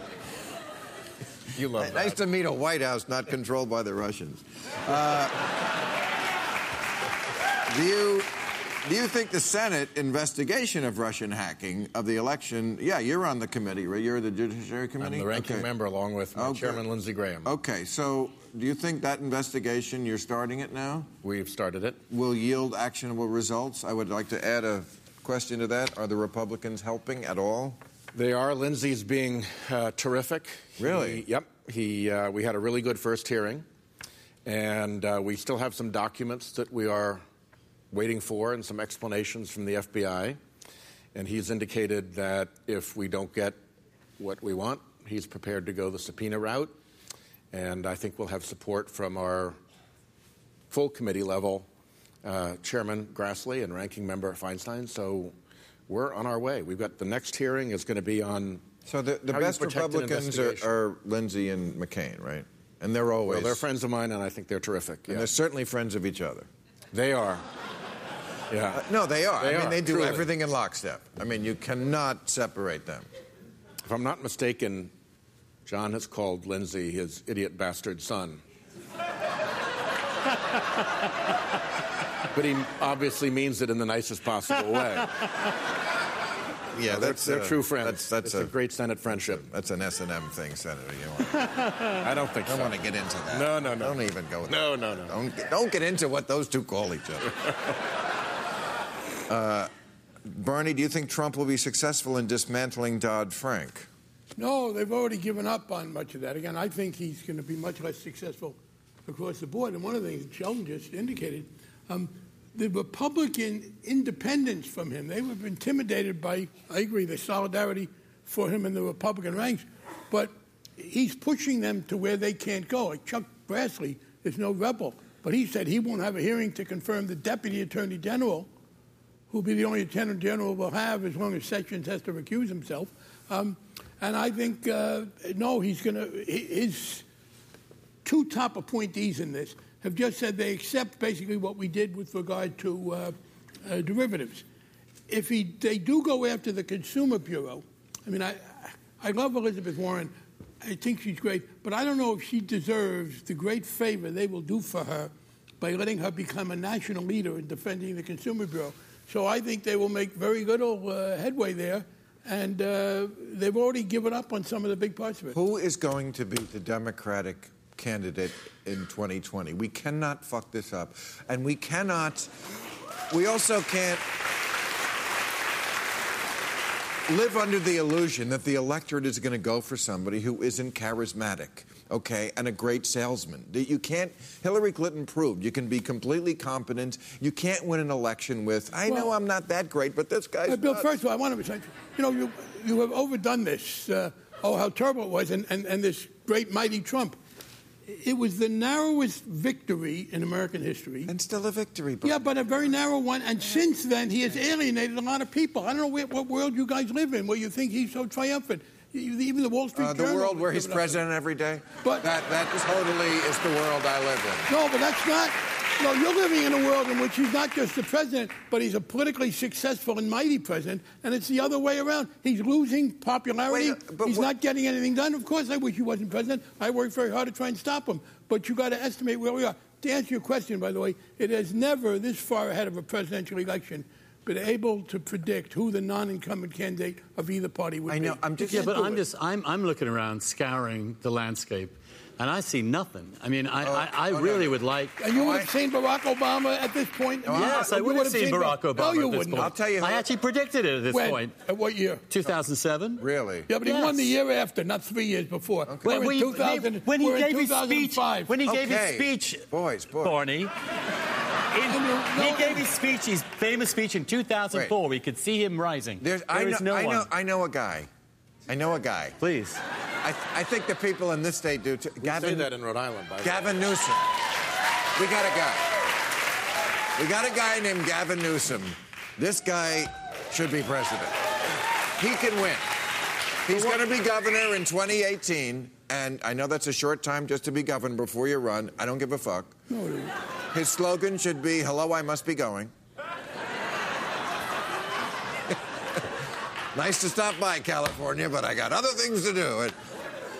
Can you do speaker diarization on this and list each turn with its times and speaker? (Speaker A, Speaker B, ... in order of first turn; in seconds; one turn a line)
Speaker A: 1.5-2.2
Speaker B: 1.7-5.4
Speaker B: 7.7-8.3
Speaker B: 8.8-15.7
Speaker A: 15.0-17.5
Speaker B: 16.4-16.8
Speaker B: 17.4-21.1
Speaker A: 21.2-22.0
Speaker B: 22.1-27.8
Speaker A: 28.1-33.6
Speaker B: 30.8-31.2
Speaker A: 34.4-37.2
Speaker A: 37.9-40.4
Speaker A: 41.1-43.6
Speaker A: 44.2-46.7
Speaker A: 47.5-49.6
Speaker A: 50.7-51.7
Speaker A: 52.2-55.3
Speaker A: 55.9-58.6
Speaker B: 58.9-63.6
Speaker A: 59.3-60.6
Speaker A: 63.2-65.3
Speaker B: 65.1-66.5
Speaker A: 66.9-67.5
Speaker A: 68.5-68.8
Speaker B: 68.7-73.0
Speaker A: 69.4-70.2
Speaker A: 73.8-74.9
Speaker A: 75.6-78.4
Speaker A: 82.3-85.1
Speaker B: 86.7-88.5
Speaker A: 86.9-89.4
Speaker B: 89.1-91.4
Speaker A: 92.0-92.8
Speaker B: 92.4-97.4
Speaker A: 93.3-95.2
Speaker B: 99.3-99.7
Speaker B: 100.2-103.9
Speaker C: 104.3-128.5
Speaker C: 129.3-137.1
Speaker C: 138.0-144.4
Speaker C: 145.1-165.3
Speaker B: 165.3-172.3
Speaker B: 173.1-174.0
Speaker B: 177.1-190.9
Speaker C: 188.9-189.1
Speaker C: 190.5-197.2
Speaker C: 197.8-201.1
Speaker B: 201.1-202.2
Speaker C: 202.0-211.0
Speaker B: 209.8-214.5
Speaker C: 214.5-238.8
Speaker B: 223.5-224.2
Speaker B: 237.9-239.0
Speaker D: 238.4-245.0
Speaker B: 243.6-244.6
Speaker C: 245.0-249.5
Speaker B: 245.1-245.5
Speaker B: 247.3-247.7
Speaker D: 247.3-251.3
Speaker B: 249.3-250.0
Speaker C: 250.9-252.1
Speaker D: 252.1-253.0
Speaker B: 253.0-253.5
Speaker C: 253.5-258.3
Speaker D: 253.6-254.1
Speaker B: 255.7-255.9
Speaker D: 255.8-259.4
Speaker B: 258.4-260.2
Speaker D: 260.0-260.5
Speaker D: 261.5-267.1
Speaker C: 261.7-262.7
Speaker B: 266.0-267.9
Speaker B: 268.5-269.2
Speaker D: 269.2-269.6
Speaker B: 270.0-272.5
Speaker A: 272.0-273.5
Speaker B: 273.2-274.1
Speaker B: 274.9-275.7
Speaker B: 276.9-281.2
Speaker B: 282.0-282.7
Speaker B: 283.4-289.5
Speaker C: 289.7-290.1
Speaker B: 290.5-292.7
Speaker B: 296.7-299.8